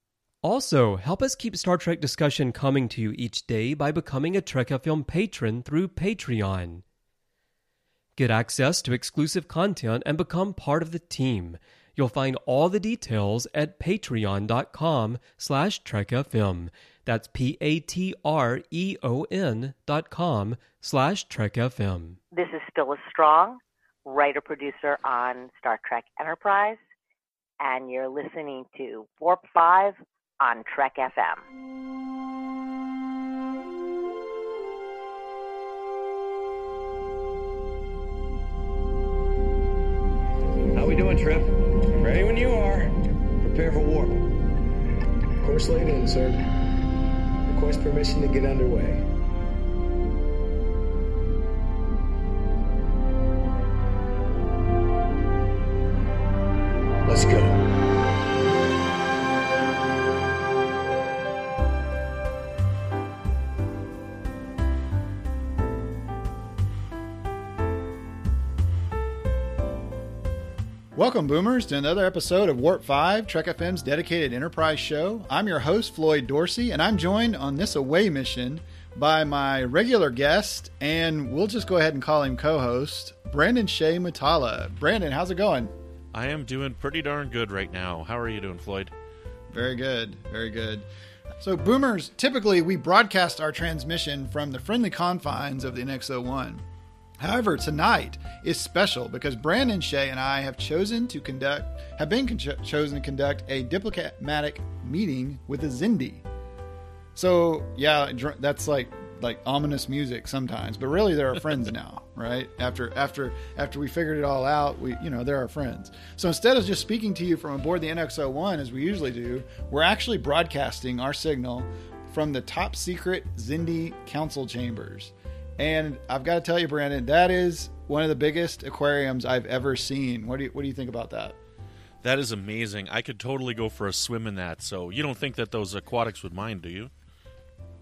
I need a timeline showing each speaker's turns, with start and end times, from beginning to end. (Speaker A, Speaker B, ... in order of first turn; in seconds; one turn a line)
Speaker A: 0.4-6.8
Speaker A: 8.2-22.2
Speaker B: 22.3-26.8
Speaker B: 27.6-31.4
Speaker C: 40.7-44.2
Speaker C: 45.4-46.4
Speaker C: 47.5-49.0
Speaker C: 57.1-57.6
Speaker D: 71.0-85.7
Speaker E: 86.1-88.9
Speaker D: 89.5-90.9
Speaker D: 91.4-96.7
Speaker D: 97.2-106.2
Speaker D: 107.2-131.4
Speaker E: 132.0-136.9